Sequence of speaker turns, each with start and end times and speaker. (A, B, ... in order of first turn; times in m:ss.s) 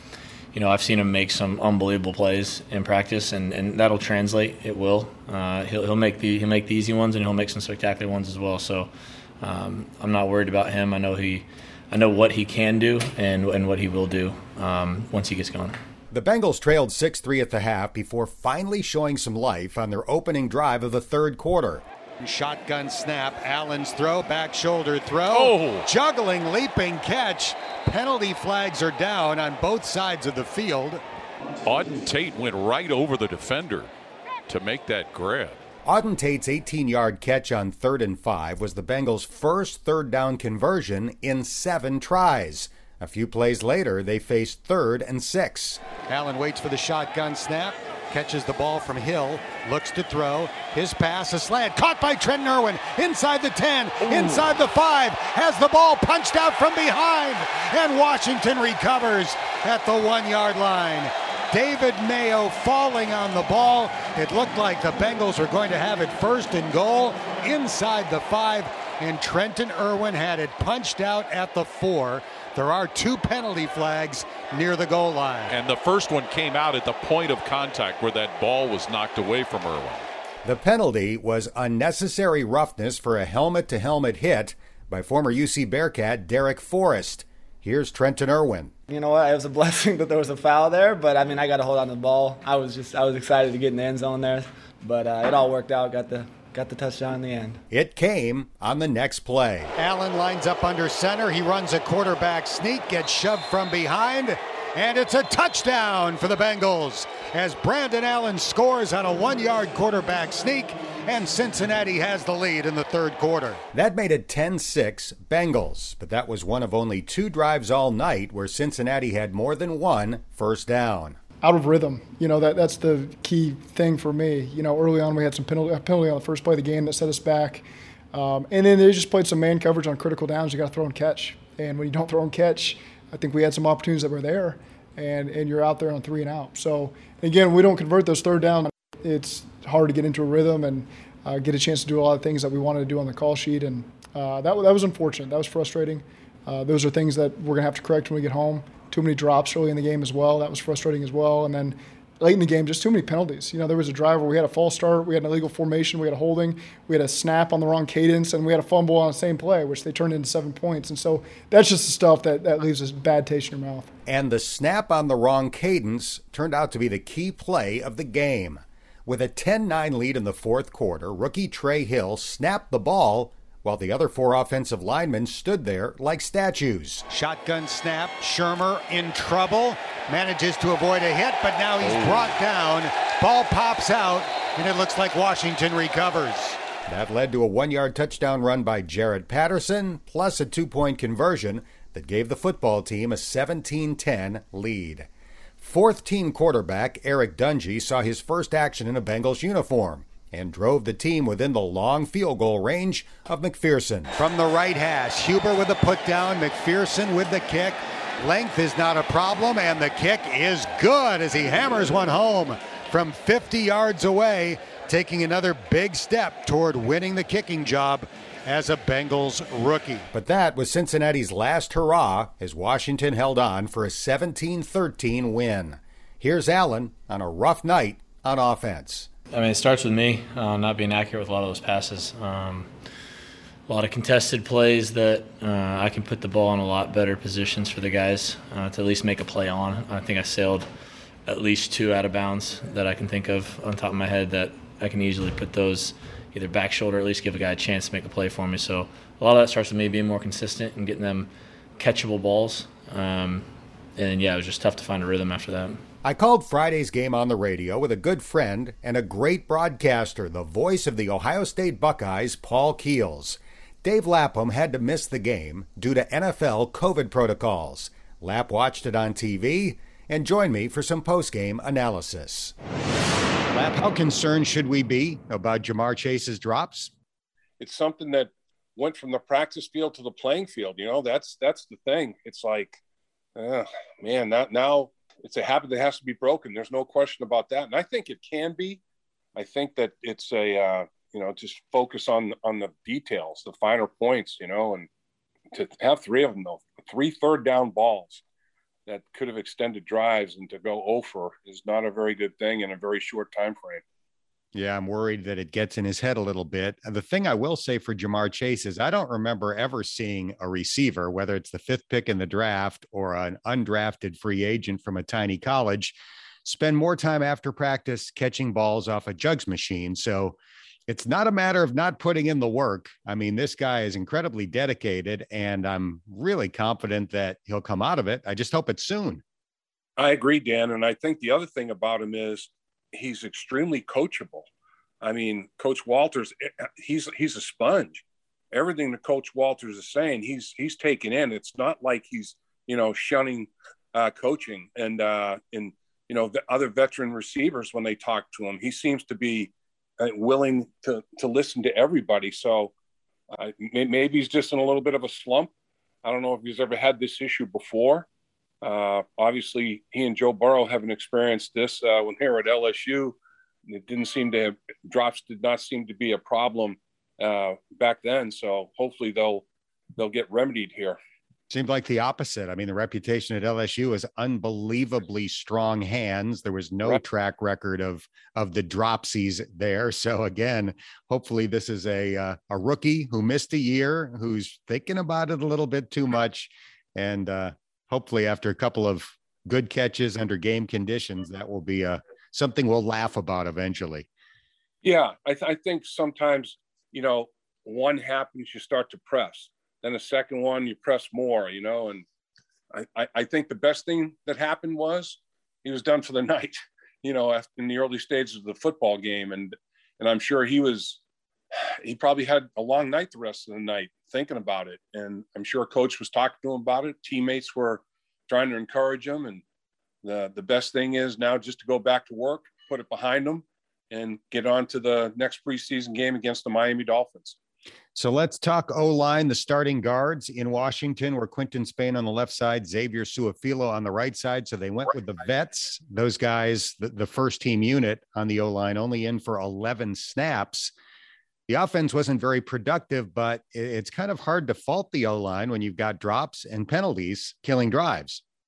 0:00.5-0:15.8 A
0:16.1-0:31.0 B
0:25.3-0:25.8 C
0:31.6-0:33.9 C
0:34.5-0:35.6 C
0:35.8-1:15.6 B
1:15.5-1:20.1 C
1:20.4-1:28.7 B
1:28.9-1:37.6 D
1:37.7-2:01.2 B
2:01.4-2:43.9 E
2:44.0-3:49.1 B
3:49.3-3:52.7 A
3:53.7-4:00.7 A
4:01.2-4:15.8 A
4:16.0-4:32.5 B
4:33.5-4:36.9 B
4:37.6-4:42.8 F
4:43.4-4:48.8 F
4:49.4-4:54.9 F
4:55.5-4:58.2 F
4:58.9-5:03.8 F
5:04.5-5:29.2 B
5:30.0-5:34.5 F
5:35.0-5:52.7 F
5:53.3-5:55.5 F
5:56.0-5:58.1 F
5:58.6-6:03.2 F
6:03.7-6:09.4 F
6:10.0-6:11.0 F
6:11.5-6:34.1 B
6:34.8-6:42.0 F
6:42.7-6:51.0 F
6:51.5-6:59.4 F
7:00.0-7:07.4 F
7:07.9-7:20.7 B
7:21.5-7:28.2 B